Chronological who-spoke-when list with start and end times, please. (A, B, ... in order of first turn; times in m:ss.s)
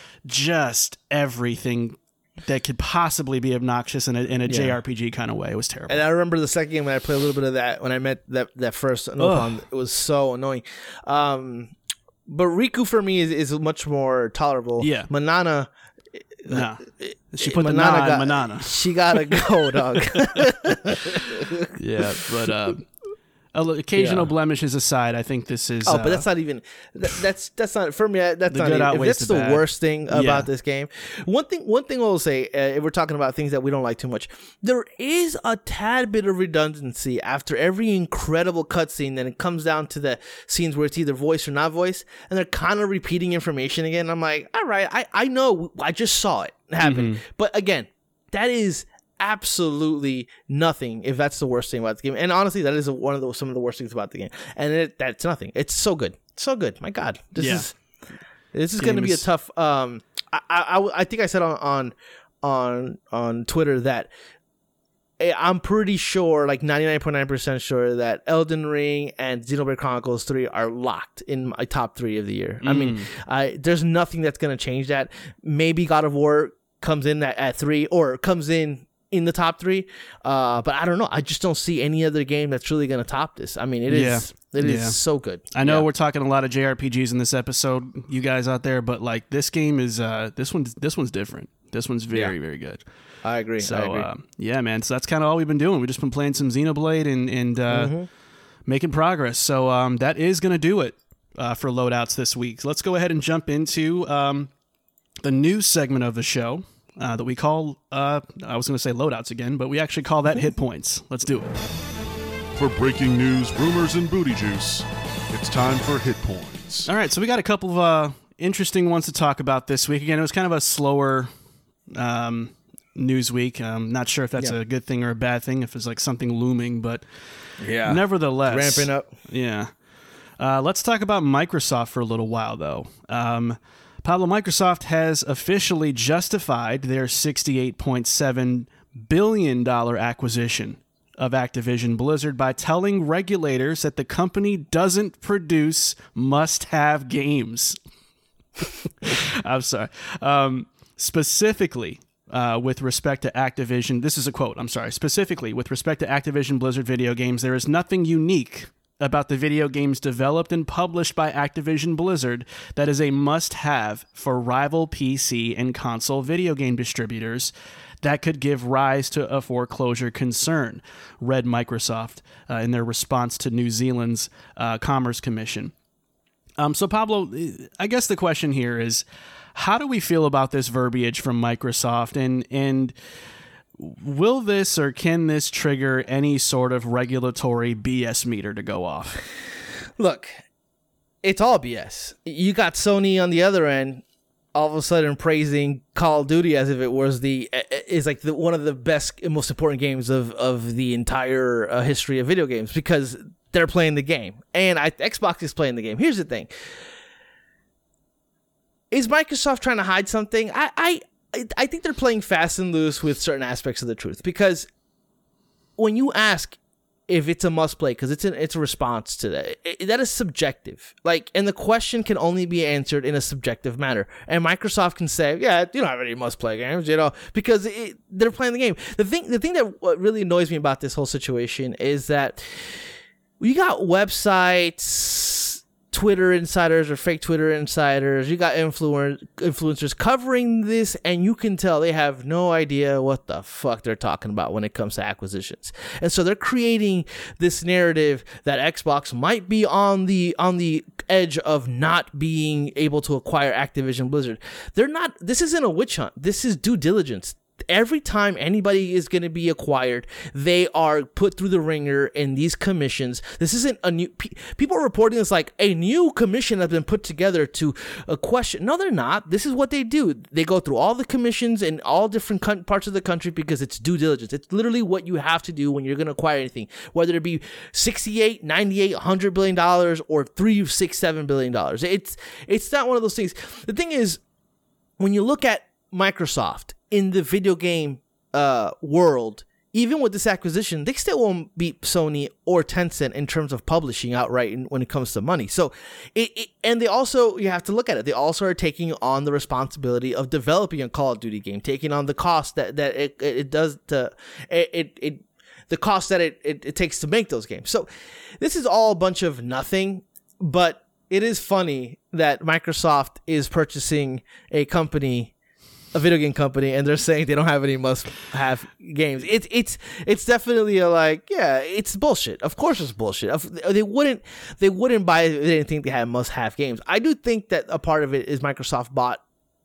0:00.2-0:06.0 A
0:04.5-0:04.8 B
0:05.9-0:11.7 B
0:09.2-0:09.5 A
0:12.3-0:15.7 B
0:14.8-0:15.1 A
0:16.4-0:21.7 B
0:16.5-0:19.4 A
0:20.1-0:20.4 A
0:21.8-0:22.8 A
0:23.5-0:26.2 A
0:24.0-0:24.3 B
0:25.8-0:57.8 B
0:28.5-0:30.5 A
0:46.8-0:47.2 A
0:57.4-0:57.6 A
0:58.5-1:04.1 B
0:58.8-0:59.2 A
1:05.2-1:25.8 B
1:12.6-1:13.0 A
1:23.9-1:25.0 A
1:25.5-1:32.8 A
1:33.2-1:34.1 B
1:33.6-1:37.9 A
1:37.7-1:38.1 B
1:38.6-1:44.5 A
1:45.2-1:51.6 A
1:52.6-1:56.9 C
1:56.8-2:01.3 A
2:01.9-2:07.0 A
2:07.6-2:09.1 B
2:07.8-2:09.7 A
2:10.4-2:27.8 A
2:28.6-2:55.7 A
2:56.6-3:02.9 A
3:03.8-3:09.2 A
3:10.0-3:10.3 B
3:11.2-3:14.0 B
3:14.5-3:26.5 B
3:28.9-3:34.7 B
3:35.8-3:36.6 B
3:37.1-3:52.8 B
3:53.4-4:44.2 B
4:45.0-5:07.9 B
5:08.4-5:15.3 B
5:15.9-5:29.2 B